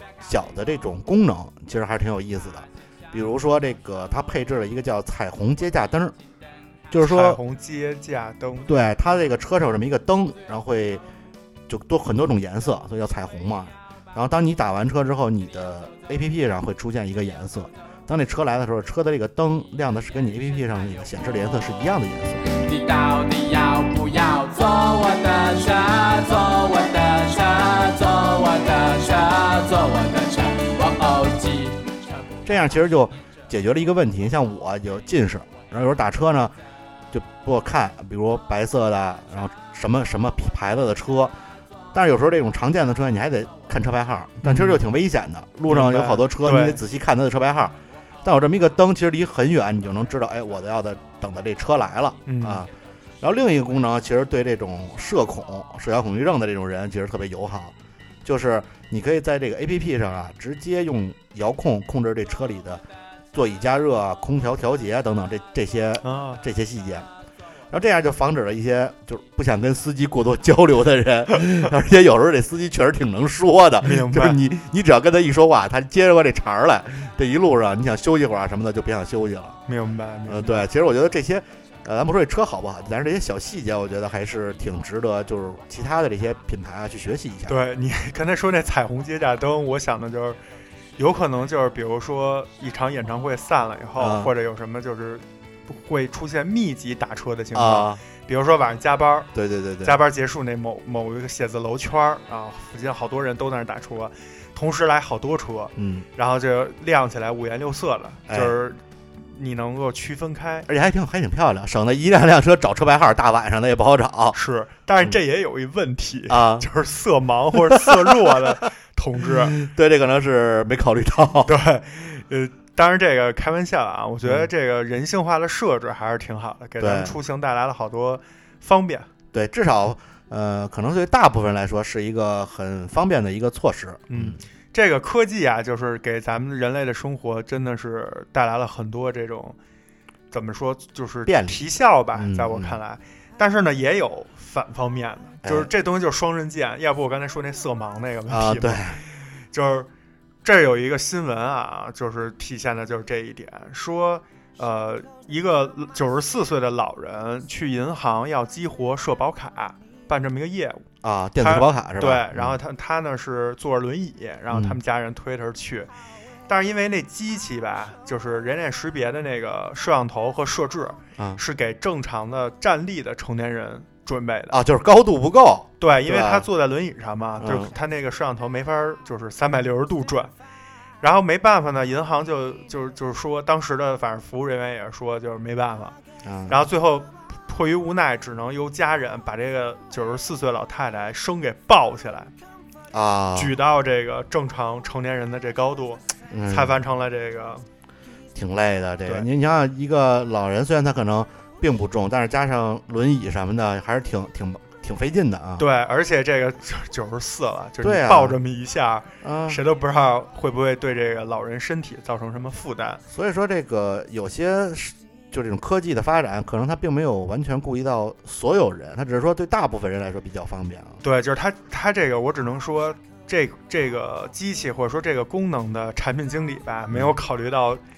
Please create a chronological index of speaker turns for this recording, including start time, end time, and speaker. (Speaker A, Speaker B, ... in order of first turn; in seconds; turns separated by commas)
Speaker A: 0.2-6.1, Speaker A: 6.9-7.4, Speaker B: 7.0-8.7, Speaker A: 8.7-11.0, Speaker A: 11.7-22.4, Speaker C: 22.6-32.0, Speaker A: 32.4-36.5, Speaker A: 37.1-41.3, Speaker A: 41.9-52.7, Speaker B: 44.4-44.8, Speaker B: 45.7-46.8, Speaker B: 52.2-52.6, Speaker A: 53.2-67.1, Speaker B: 66.0-66.4, Speaker A: 67.7-79.6, Speaker B: 73.8-74.4, Speaker B: 79.7-80.7, Speaker A: 80.3-87.6, Speaker B: 87.5-90.4, Speaker B: 91.0-99.3, Speaker A: 94.0-94.3, Speaker A: 97.5-98.0, Speaker A: 99.3-100.0, Speaker B: 99.8-110.7, Speaker A: 105.8-106.0, Speaker A: 108.3-108.6, Speaker A: 110.7-114.4, Speaker B: 114.3-119.5, Speaker A: 116.3-116.7, Speaker A: 117.7-118.5, Speaker A: 119.2-121.5, Speaker B: 121.5-129.1, Speaker A: 126.8-127.1, Speaker A: 129.3-134.4, Speaker B: 134.1-139.6, Speaker B: 140.3-149.9, Speaker A: 141.2-141.6, Speaker A: 142.2-142.8, Speaker A: 145.4-145.7, Speaker A: 148.3-149.0, Speaker B: 150.4-160.8, Speaker A: 161.0-162.6, Speaker B: 161.4-165.9, Speaker A: 164.5-164.8, Speaker B: 166.5-174.6, Speaker A: 174.5-176.5, Speaker B: 175.8-180.3, Speaker A: 177.4-177.7, Speaker B: 181.0-185.9, Speaker A: 186.2-186.6, Speaker B: 186.5-192.3, Speaker A: 192.9-193.5, Speaker B: 193.3-197.7, Speaker A: 196.3-196.8, Speaker A: 198.3-205.6, Speaker B: 205.6-213.0, Speaker A: 207.8-208.4, Speaker A: 209.2-209.6, Speaker A: 213.1-221.0, Speaker B: 221.0-227.8